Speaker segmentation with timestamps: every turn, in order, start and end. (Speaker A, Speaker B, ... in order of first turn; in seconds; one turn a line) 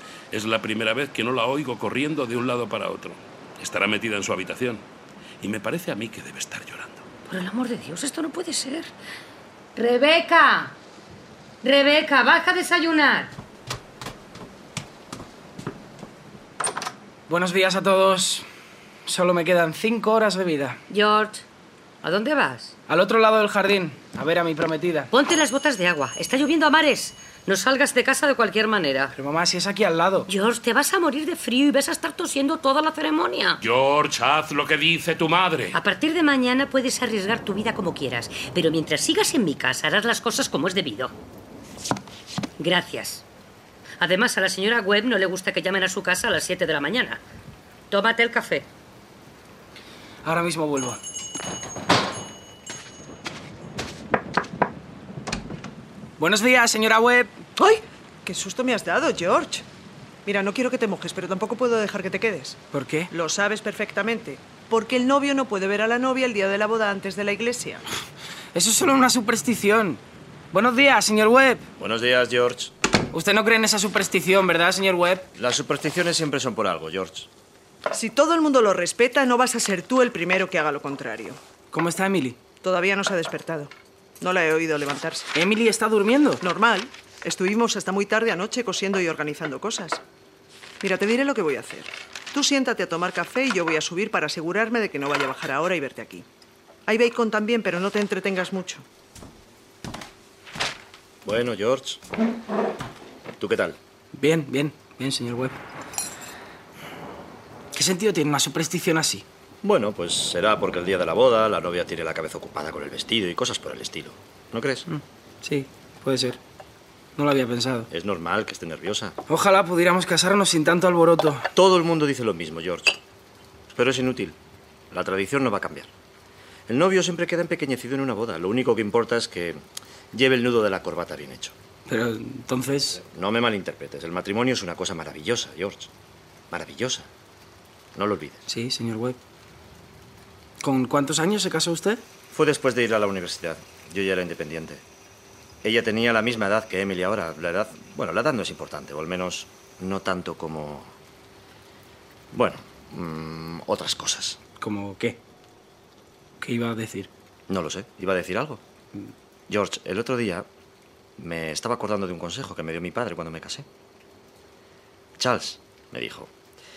Speaker A: 0.3-4.8
Speaker A: 5.4-7.0
Speaker B: 7.3-8.9
Speaker B: 9.8-10.7
Speaker B: 11.6-13.3
Speaker C: 17.3-18.4
Speaker C: 19.1-20.8
Speaker B: 20.9-21.4
Speaker B: 22.0-22.8
Speaker C: 22.9-25.1
Speaker B: 25.1-29.1
Speaker C: 29.1-30.3
Speaker B: 30.3-33.6
Speaker A: 33.6-35.8
Speaker B: 35.7-41.1
Speaker B: 42.6-43.2
Speaker B: 44.0-47.2
Speaker B: 47.9-48.7
Speaker C: 50.2-51.0
Speaker C: 56.2-57.4
Speaker D: 57.6-59.6
Speaker D: 60.2-62.6
Speaker C: 62.7-63.1
Speaker D: 63.1-67.8
Speaker C: 68.5-70.0
Speaker C: 70.5-71.6
Speaker E: 71.8-72.7
Speaker C: 73.1-75.2
Speaker E: 75.4-77.3
Speaker D: 77.9-81.4
Speaker C: 81.7-82.4
Speaker D: 82.6-85.3
Speaker C: 85.3-86.4
Speaker D: 86.4-90.0
Speaker D: 90.8-96.3
Speaker D: 96.9-98.9
Speaker E: 101.2-102.0
Speaker E: 103.4-103.8
Speaker C: 104.2-105.6
Speaker C: 107.7-109.2
Speaker E: 109.6-114.9
Speaker C: 114.9-116.4
Speaker C: 117.2-117.9
Speaker E: 117.9-119.2
Speaker C: 119.3-121.5
Speaker E: 121.5-122.9
Speaker E: 123.7-124.4
Speaker E: 124.9-125.9
Speaker E: 126.7-129.6
Speaker E: 130.1-131.6
Speaker C: 131.9-133.0
Speaker E: 133.0-135.9
Speaker E: 136.5-137.1
Speaker E: 137.9-138.4
Speaker C: 138.5-139.2
Speaker C: 140.6-142.0
Speaker E: 142.3-144.8
Speaker E: 145.6-150.9
Speaker E: 152.3-154.4
Speaker C: 154.6-155.2
Speaker C: 156.4-157.1
Speaker E: 157.5-158.6
Speaker E: 159.5-160.5
Speaker E: 161.2-163.7
Speaker E: 165.2-166.3